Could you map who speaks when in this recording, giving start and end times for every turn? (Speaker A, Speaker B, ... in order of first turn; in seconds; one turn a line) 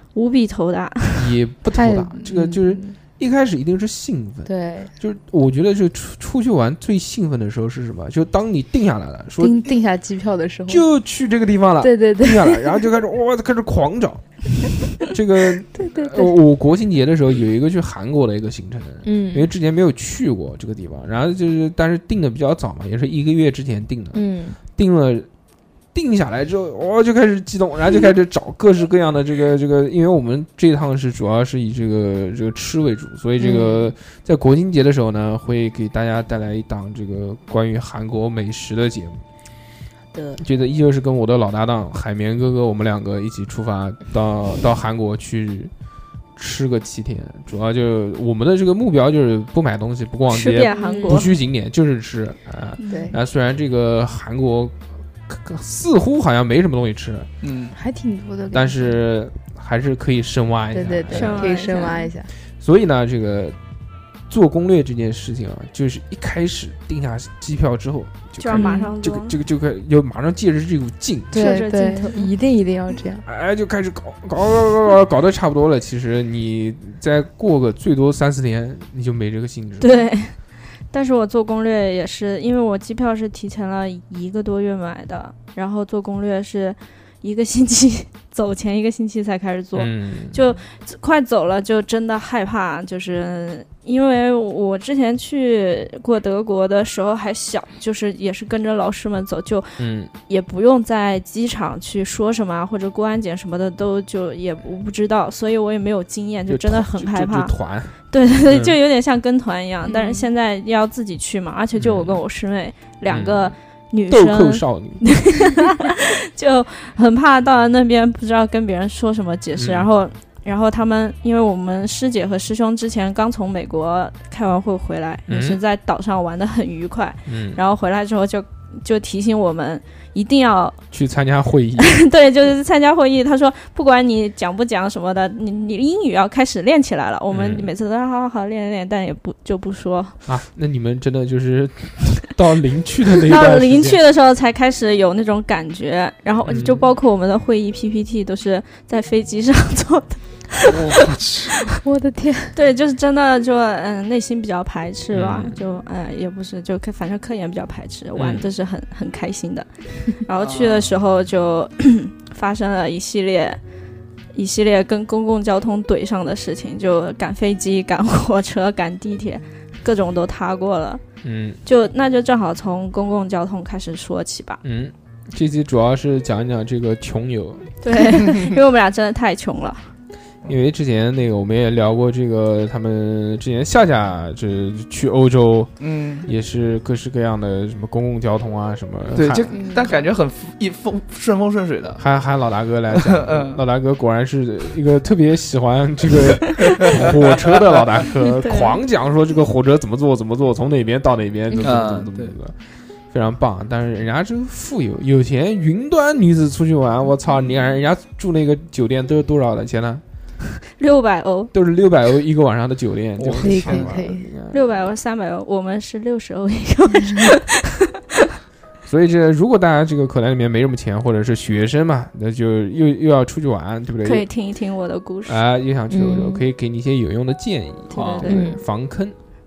Speaker A: 0.1-1.4
Speaker B: 1.1-9.6
Speaker C: 1.7-3.0
Speaker C: 4.5-4.9
Speaker C: 9.4-10.8
Speaker B: 10.7-25.3
Speaker C: 11.8-12.7
Speaker C: 15.8-16.4
Speaker C: 19.0-19.5
Speaker C: 24.1-24.6
Speaker B: 25.9-39.2
Speaker C: 33.4-33.9
Speaker B: 40.4-45.7
Speaker B: 46.4-57.3
Speaker A: 50.3-51.4
Speaker C: 50.7-51.2
Speaker A: 52.8-53.1
Speaker C: 52.9-53.2
Speaker D: 57.4-57.8
Speaker C: 57.8-59.0
Speaker B: 58.5-61.5
Speaker C: 60.7-62.3
Speaker A: 61.1-62.1
Speaker B: 62.6-63.6
Speaker B: 64.3-71.5
Speaker A: 68.4-69.4
Speaker C: 68.5-68.9
Speaker C: 71.3-73.2
Speaker A: 71.3-72.3
Speaker B: 73.2-80.0
Speaker A: 79.8-80.4
Speaker A: 80.9-107.5
Speaker B: 89.8-90.4
Speaker B: 99.8-100.1
Speaker B: 106.5-108.8
Speaker A: 108.1-130.8
Speaker C: 109.9-110.3
Speaker B: 111.8-112.2
Speaker B: 113.1-113.5
Speaker B: 114.1-115.2
Speaker B: 119.5-119.9
Speaker B: 125.3-125.6
Speaker B: 127.3-127.6
Speaker B: 130.9-132.0
Speaker A: 131.8-140.2
Speaker B: 137.3-137.7
Speaker B: 140.3-144.0
Speaker A: 143.2-151.0
Speaker B: 146.5-146.9
Speaker D: 150.7-151.7
Speaker C: 151.8-152.6
Speaker A: 152.6-163.6
Speaker B: 155.1-155.6
Speaker B: 158.2-158.5
Speaker D: 160.4-160.9
Speaker A: 164.3-171.0
Speaker B: 171.2-171.6
Speaker A: 171.7-174.6
Speaker B: 174.6-177.8
Speaker A: 177.8-179.9
Speaker B: 180.5-189.5
Speaker D: 185.8-186.3
Speaker D: 189.2-192.0
Speaker C: 189.5-189.9
Speaker B: 192.0-202.6
Speaker D: 192.9-193.6
Speaker D: 196.8-197.8
Speaker A: 198.4-198.8
Speaker D: 201.6-202.3
Speaker B: 203.1-210.0
Speaker A: 210.8-211.5
Speaker B: 211.5-214.7
Speaker D: 213.2-214.0
Speaker C: 213.4-214.3
Speaker A: 214.5-218.0
Speaker C: 217.0-217.3
Speaker B: 218.9-224.3
Speaker A: 224.0-225.4
Speaker B: 225.3-229.2
Speaker C: 225.9-226.4
Speaker A: 227.9-228.5
Speaker D: 228.0-228.3
Speaker C: 228.3-228.6